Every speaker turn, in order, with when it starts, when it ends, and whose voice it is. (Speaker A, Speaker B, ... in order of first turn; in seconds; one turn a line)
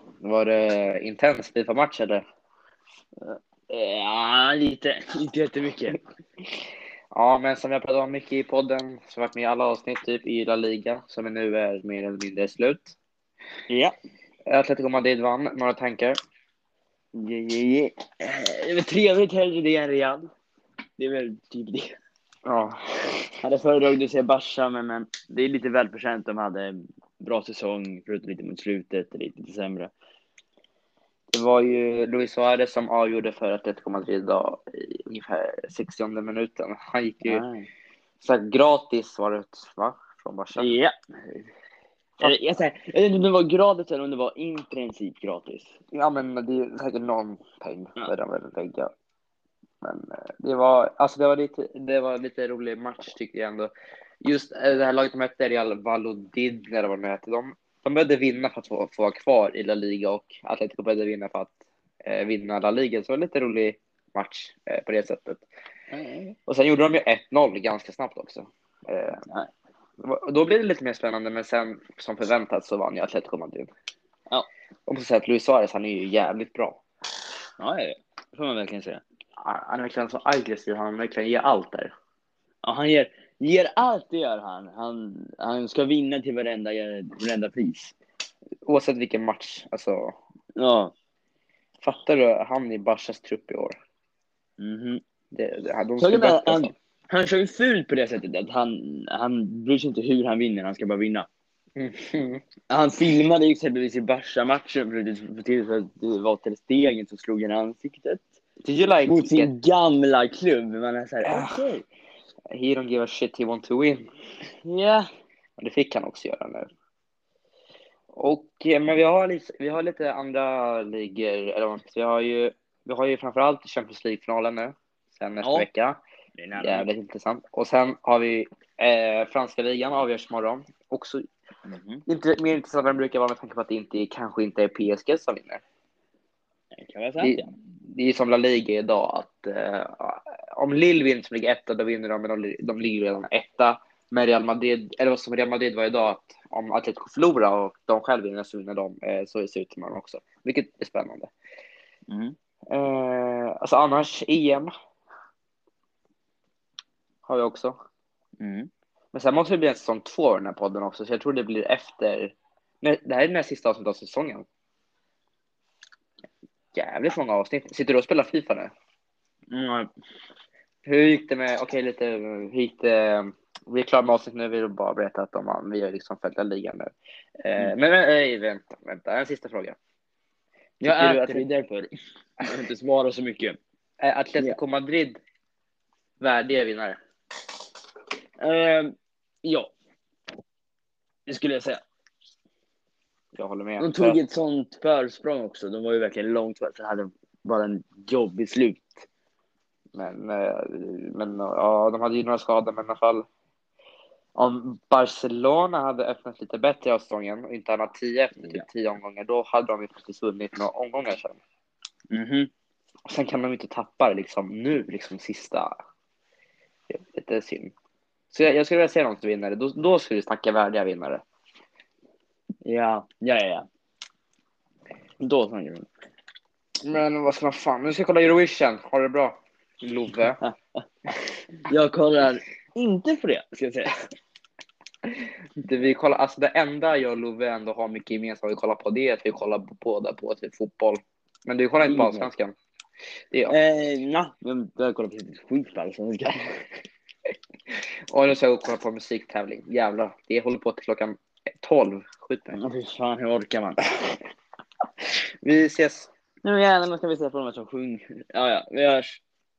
Speaker A: 0.2-2.2
Speaker B: 3.2-6.0
Speaker A: 7.1-12.9
Speaker B: 13.7-13.9
Speaker A: 14.5-16.2
Speaker B: 17.1-20.3
Speaker B: 21.0-21.9
Speaker A: 22.4-23.3
Speaker B: 23.4-29.9
Speaker A: 31.3-37.4
Speaker B: 37.2-37.7
Speaker A: 38.2-40.7
Speaker B: 40.5-41.5
Speaker B: 42.2-45.7
Speaker A: 45.9-48.9
Speaker A: 49.8-53.7
Speaker A: 54.2-65.5
Speaker B: 65.9-66.3
Speaker A: 66.5-69.2
Speaker A: 70.0-73.7
Speaker A: 74.9-76.8
Speaker B: 77.6-79.0
Speaker A: 79.4-81.9
Speaker B: 82.6-87.9
Speaker A: 88.7-90.2
Speaker B: 90.6-90.9
Speaker A: 91.8-93.8
Speaker B: 94.6-95.0
Speaker A: 95.3-96.7
Speaker B: 96.0-101.3
Speaker A: 101.8-102.4
Speaker B: 102.7-108.3
Speaker A: 108.6-109.5
Speaker B: 109.0-111.8
Speaker A: 111.2-111.5
Speaker A: 112.5-114.1
Speaker B: 114.6-115.1
Speaker A: 115.6-116.7
Speaker A: 118.1-126.0
Speaker B: 125.4-125.7
Speaker B: 126.4-126.9
Speaker A: 126.5-131.2
Speaker B: 131.7-132.0
Speaker A: 132.1-135.6
Speaker B: 136.7-137.5
Speaker A: 137.2-151.3
Speaker B: 152.1-152.3
Speaker A: 152.7-154.7
Speaker A: 157.2-157.8
Speaker B: 158.4-158.7
Speaker A: 159.1-164.4
Speaker A: 166.7-168.7
Speaker B: 169.5-169.9
Speaker A: 170.8-179.8
Speaker B: 180.8-181.9
Speaker A: 180.8-181.4
Speaker B: 182.4-183.6
Speaker A: 184.0-185.2
Speaker A: 186.2-187.0
Speaker B: 188.4-189.7
Speaker B: 191.3-191.8
Speaker A: 193.3-194.2
Speaker B: 193.8-199.1
Speaker A: 199.9-203.2
Speaker A: 204.3-211.4
Speaker B: 212.1-212.5
Speaker A: 213.1-215.7
Speaker A: 216.9-217.7
Speaker A: 218.3-221.2
Speaker B: 222.6-223.7
Speaker B: 225.2-225.9
Speaker A: 226.8-230.4
Speaker B: 231.7-233.9
Speaker A: 235.6-242.5
Speaker B: 241.8-242.3
Speaker B: 243.5-246.4
Speaker A: 248.1-252.6
Speaker B: 252.6-253.9
Speaker A: 255.4-256.1
Speaker B: 256.4-259.2